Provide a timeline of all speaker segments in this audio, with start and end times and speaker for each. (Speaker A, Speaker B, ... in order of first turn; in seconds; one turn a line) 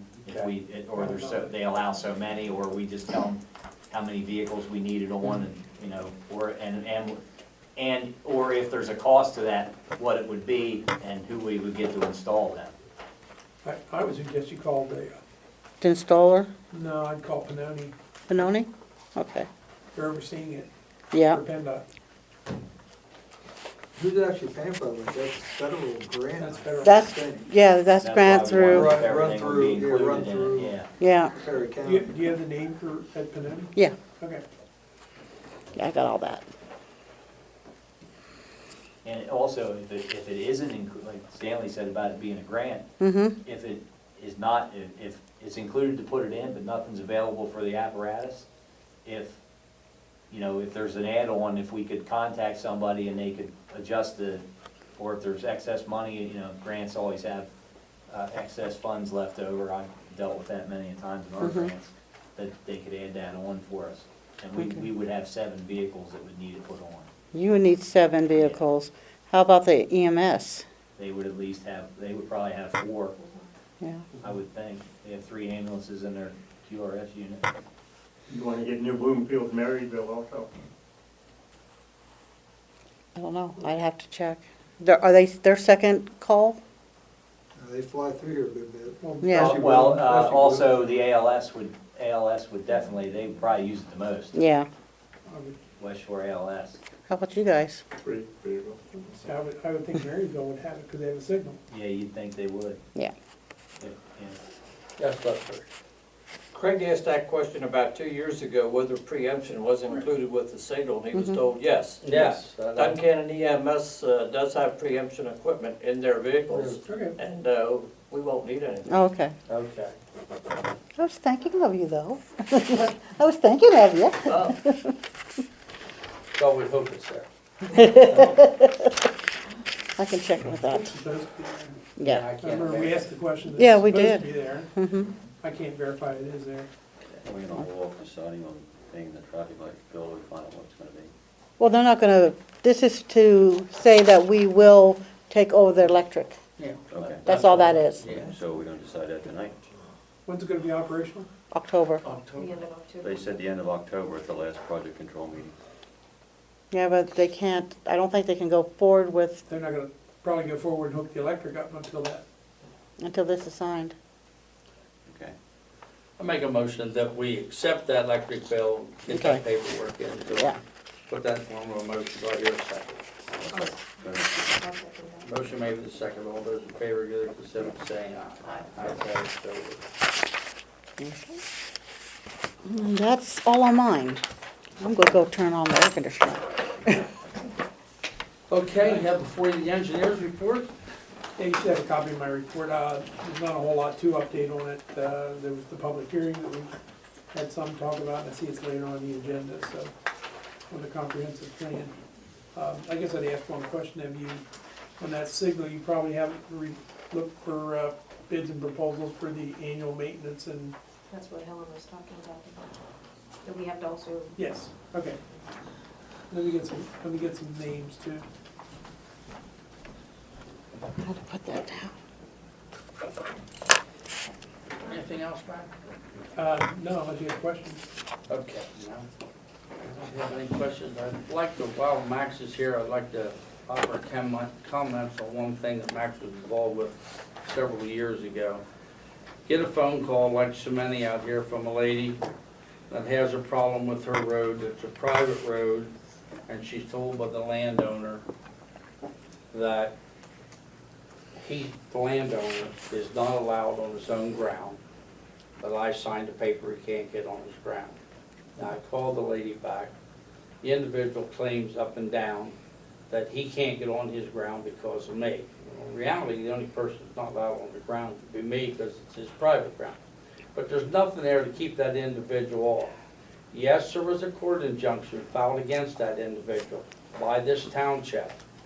Speaker A: 0.2-7.2
Speaker B: 0.9-1.5
Speaker A: 7.8-12.7
Speaker B: 13.6-15.2
Speaker C: 15.8-16.5
Speaker B: 16.7-17.9
Speaker C: 18.3-19.5
Speaker B: 19.9-20.7
Speaker C: 21.1-21.4
Speaker B: 21.3-21.9
Speaker D: 24.0-27.5
Speaker B: 26.4-27.1
Speaker C: 26.8-29.0
Speaker A: 28.0-30.9
Speaker D: 28.7-30.8
Speaker C: 31.0-31.3
Speaker D: 31.3-32.2
Speaker B: 31.8-34.4
Speaker C: 35.8-36.5
Speaker A: 39.0-42.9
Speaker C: 43.0-43.4
Speaker A: 43.4-48.5
Speaker A: 49.0-49.4
Speaker A: 50.3-54.4
Speaker A: 55.0-57.5
Speaker A: 58.1-67.1
Speaker C: 61.4-61.7
Speaker C: 67.3-70.6
Speaker A: 68.3-68.6
Speaker A: 71.0-73.2
Speaker A: 74.2-77.5
Speaker E: 78.3-80.5
Speaker C: 83.2-86.6
Speaker D: 87.5-90.9
Speaker B: 89.0-89.3
Speaker C: 89.2-89.6
Speaker A: 89.3-94.3
Speaker C: 94.3-94.7
Speaker B: 95.3-95.6
Speaker A: 95.8-96.8
Speaker C: 97.1-97.8
Speaker E: 98.0-99.2
Speaker B: 99.2-101.6
Speaker A: 101.7-102.8
Speaker A: 103.8-104.4
Speaker F: 105.0-105.7
Speaker G: 106.5-118.9
Speaker C: 111.1-111.4
Speaker F: 112.0-113.0
Speaker F: 116.5-116.8
Speaker B: 116.8-117.2
Speaker C: 118.9-119.3
Speaker F: 119.5-120.0
Speaker C: 121.0-125.0
Speaker G: 124.3-124.5
Speaker F: 126.3-127.3
Speaker C: 127.7-128.9
Speaker F: 128.0-128.4
Speaker C: 130.0-130.9
Speaker B: 130.7-131.8
Speaker C: 132.0-132.3
Speaker F: 132.0-133.2
Speaker B: 132.4-134.7
Speaker C: 133.6-135.1
Speaker B: 135.4-136.7
Speaker H: 137.2-141.1
Speaker C: 141.6-146.4
Speaker F: 146.6-148.4
Speaker H: 146.9-147.4
Speaker C: 147.2-148.1
Speaker H: 148.1-149.6
Speaker B: 150.2-151.3
Speaker C: 151.5-152.0
Speaker F: 152.1-152.6
Speaker I: 152.2-153.4
Speaker H: 153.0-155.6
Speaker C: 156.7-159.4
Speaker B: 159.5-162.2
Speaker C: 163.0-163.9
Speaker H: 165.1-165.3
Speaker F: 166.2-170.6
Speaker C: 169.1-169.4
Speaker C: 170.3-170.6
Speaker F: 171.1-173.0
Speaker H: 173.4-174.7
Speaker I: 173.5-175.4
Speaker F: 175.2-179.8
Speaker C: 181.0-181.4
Speaker C: 182.7-184.2
Speaker C: 184.8-187.0
Speaker F: 188.5-190.7
Speaker B: 191.4-196.7
Speaker B: 197.3-199.9
Speaker B: 200.7-202.0
Speaker B: 202.5-204.4
Speaker B: 205.0-210.8
Speaker I: 211.1-212.8
Speaker I: 213.4-214.4
Speaker B: 214.4-215.2
Speaker B: 216.3-218.3
Speaker C: 221.0-221.9
Speaker F: 224.9-225.7
Speaker B: 226.3-227.8
Speaker F: 228.3-229.1
Speaker F: 229.8-238.6
Speaker F: 239.5-242.2
Speaker F: 242.9-245.9
Speaker F: 246.5-248.2
Speaker F: 249.5-250.0
Speaker F: 251.4-254.8
Speaker F: 255.6-258.0
Speaker F: 258.6-259.9
Speaker F: 260.6-262.6
Speaker F: 263.1-270.0
Speaker F: 270.6-273.0
Speaker F: 273.5-278.4